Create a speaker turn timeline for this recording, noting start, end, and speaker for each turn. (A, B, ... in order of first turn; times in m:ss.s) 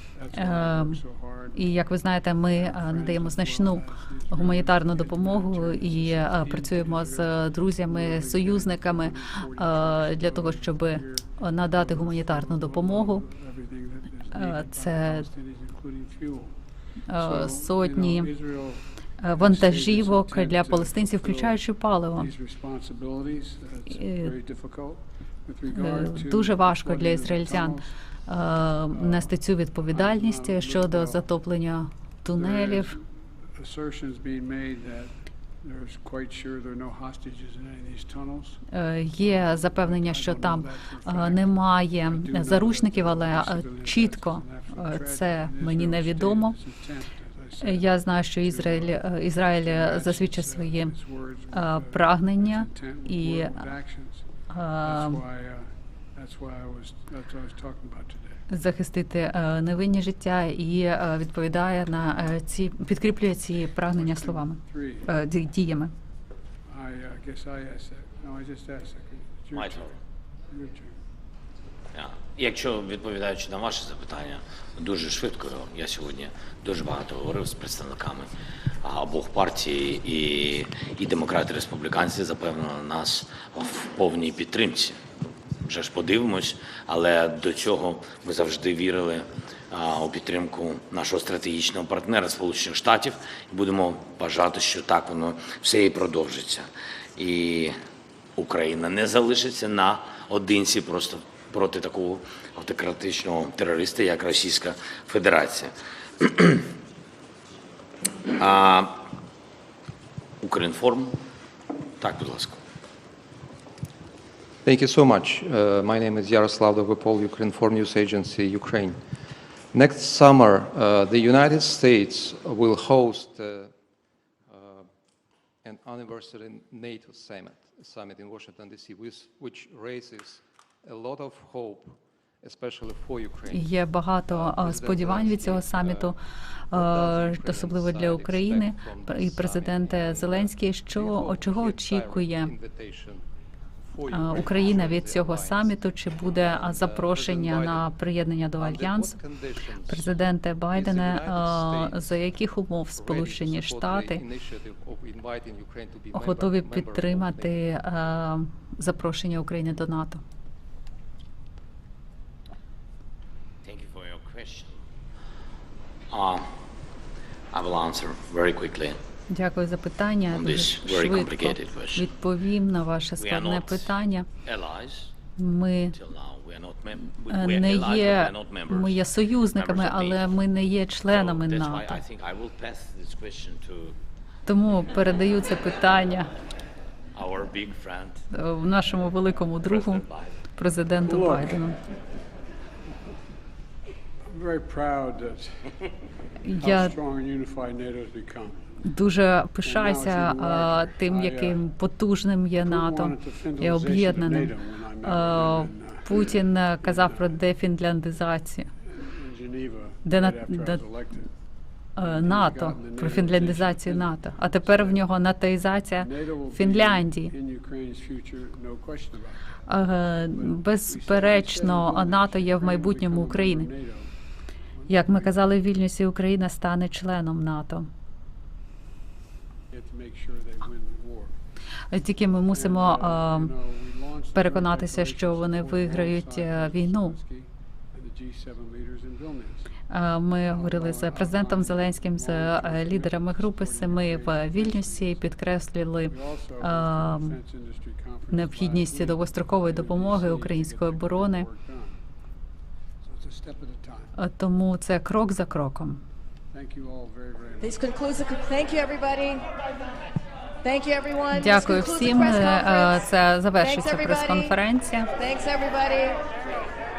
0:00.2-0:01.8 A
0:00.3-0:01.0 B
0:01.5-0:13.2 B
0:02.4-0:16.6 A
0:14.3-0:15.3 B
0:17.1-0:18.3 B
0:17.1-0:27.9 A
0:19.2-0:22.3 B
0:23.9-0:24.3 B
0:25.7-0:32.9 B
0:28.9-0:29.3 A
0:29.9-0:31.2 A
0:32.3-0:38.6 A
0:38.7-0:46.6 B
0:39.2-0:54.3 A
0:47.6-0:51.0 B
0:51.5-0:53.7 B
0:54.5-0:55.2 B
0:54.8-0:58.4 A
0:58.5-1:05.9 B
1:03.9-1:05.1 A
1:06.7-1:09.9 A
1:09.5-1:10.0 C
1:10.5-1:11.0 A
1:11.9-1:18.3 C
1:18.8-1:25.0 C
1:25.6-1:37.8 C
1:38.4-1:46.7 C
1:48.3-1:49.1 C
1:50.4-1:51.2 C
1:52.0-1:52.6 C
1:54.6-1:59.0 D
1:59.7-2:03.8 D
2:04.5-2:04.9 D
2:05.6-2:13.7 D
2:13.5-2:16.2 B
2:14.3-2:16.2 D
2:16.7-2:22.5 B
2:16.7-2:23.3 D
2:23.8-2:27.9 D
2:24.1-2:29.2 B
2:28.6-2:32.2 D
2:29.9-2:34.2 B
2:32.9-2:37.7 D
2:36.1-2:40.2 B
2:43.6-2:44.8 C
2:46.1-2:46.5 C
2:47.5-2:49.0 C
2:49.3-2:54.3 B
2:50.3-2:52.1 C
2:53.2-2:55.1 C
2:55.4-2:56.0 B
2:55.9-3:00.2 C
2:57.3-3:02.0 B
3:01.1-3:04.0 C
3:04.5-3:06.3 B
3:07.1-3:08.3 C
3:08.3-3:10.0 B
3:09.6-3:10.4 C
3:10.6-3:11.8 B
3:11.0-3:11.6 A
3:14.3-3:15.8 A
3:16.4-3:16.9 B
3:16.6-3:18.7 A
3:18.8-3:28.7 B
3:19.6-3:21.6 A
3:22.6-3:27.4 A
3:28.8-3:31.3 A
3:30.0-3:30.8 B
3:32.0-3:37.3 B
3:32.0-3:35.0 A
3:36.0-3:39.6 A
3:39.7-3:43.7 B
3:40.3-3:44.1 A
3:44.8-3:45.4 A
3:44.9-3:47.9 B
3:49.7-3:51.4 A
3:51.9-3:53.5 B
3:52.5-3:59.7 A
3:54.3-3:57.2 B
3:59.9-4:07.4 B
4:00.5-4:05.2 A
4:06.1-4:12.0 A
4:08.3-4:11.5 B
4:13.0-4:14.1 A
4:14.2-4:16.0 B
4:16.5-4:17.7 A
4:17.6-4:19.4 E
4:20.6-4:24.5 E
4:21.3-4:25.1 B
4:25.1-4:26.3 E